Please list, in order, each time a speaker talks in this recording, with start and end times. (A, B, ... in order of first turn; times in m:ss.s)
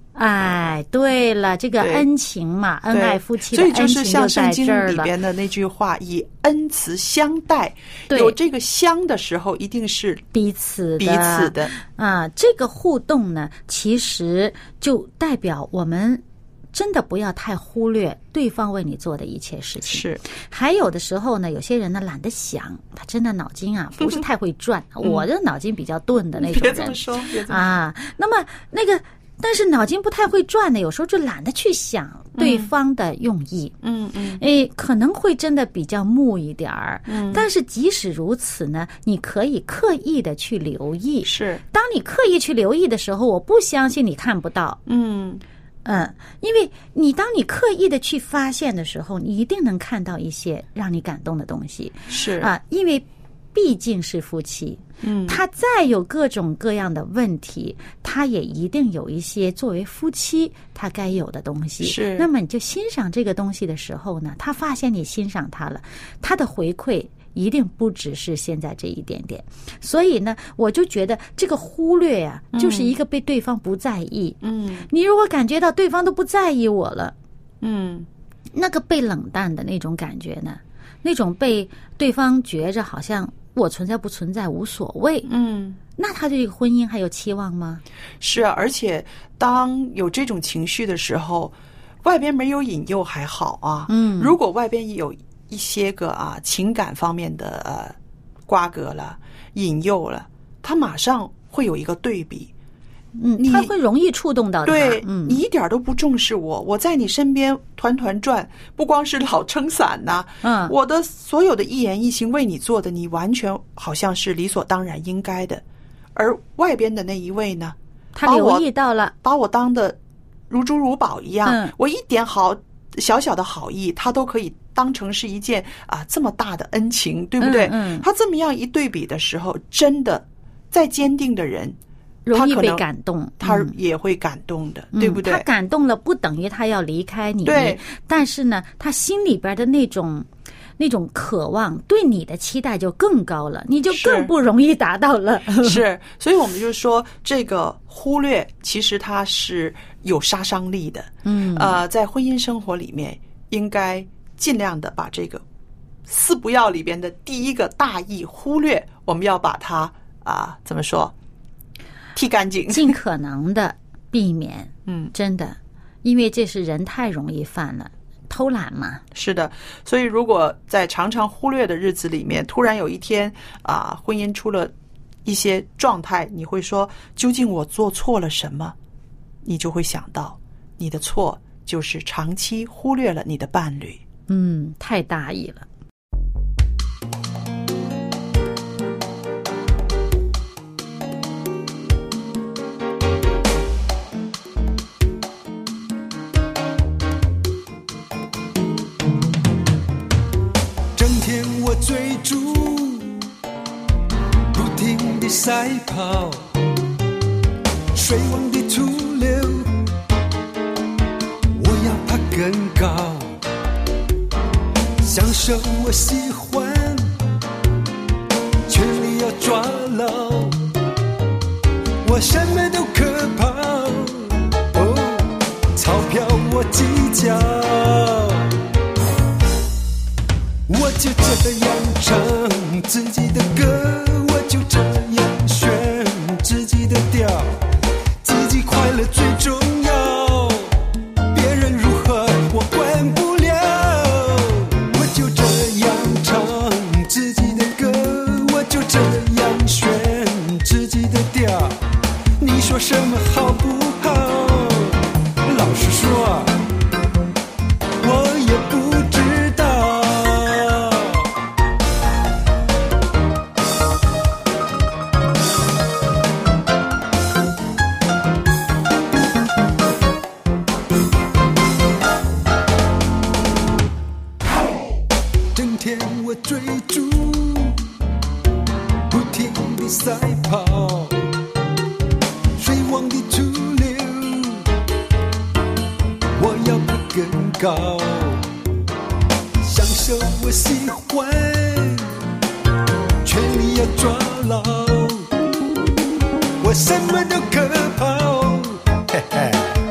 0:00.1-0:05.1 A
0:01.8-0:02.1 B
0:02.9-0:10.2 B
0:08.1-0:08.4 A
0:10.3-0:33.7 A
0:11.0-0:11.7 B
0:19.8-0:20.2 B
0:25.0-0:25.3 B
0:26.3-0:27.7 B
0:32.4-0:32.7 B
0:33.8-0:34.4 B
0:34.4-0:44.8 A
0:37.1-0:37.5 B
0:41.2-0:41.6 B
0:44.8-0:45.4 B
0:45.8-1:14.4 A
0:52.1-0:52.5 B
0:55.0-0:55.4 B
1:01.8-1:02.3 B
1:12.5-1:12.9 B
1:14.4-1:14.9 B
1:14.9-1:17.1 A
1:17.6-1:18.1 B
1:18.5-1:25.3 A
1:25.2-1:25.8 B
1:26.0-1:27.8 A
1:28.2-1:38.0 B
1:33.9-1:34.4 A
1:38.5-1:42.5 B
1:43.2-1:45.4 A
1:43.4-1:43.7 B
1:44.6-1:55.6 B
1:50.4-1:50.7 A
1:56.1-1:58.7 B
1:58.1-1:59.1 A
1:59.2-2:00.0 B
2:00.5-2:11.8 B
2:01.4-2:01.7 A
2:07.4-2:08.1 A
2:12.2-2:13.7 A
2:12.3-2:12.8 B
2:13.4-2:15.4 B
2:14.9-2:20.3 A
2:17.4-2:17.8 B
2:20.8-2:25.8 A
2:23.9-2:24.3 B
2:25.6-2:35.4 B
2:31.2-2:31.8 A
2:36.0-2:41.1 B
2:42.1-2:43.0 B
2:42.7-2:49.0 A
2:44.8-2:45.1 B
2:49.1-2:54.7 B
2:55.2-2:58.8 B
2:59.4-3:04.0 B
3:04.3-3:05.6 A
3:20.9-3:23.2 C
3:24.5-3:26.5 C
3:27.9-3:29.8 C
3:31.5-3:33.4 C
3:35.0-3:37.1 C
3:38.7-3:40.6 C
3:42.0-3:48.6 C
3:50.7-3:57.6 C
3:58.2-4:00.8 C
4:01.3-4:11.8 C
4:12.4-4:16.6 C
4:18.0-4:21.3 C
4:35.5-4:37.8 C
4:39.1-4:41.3 C
4:42.6-4:44.7 C
4:46.4-4:48.5 C
4:49.6-4:52.2 C
4:53.2-4:55.3 C
4:56.6-4:59.7 C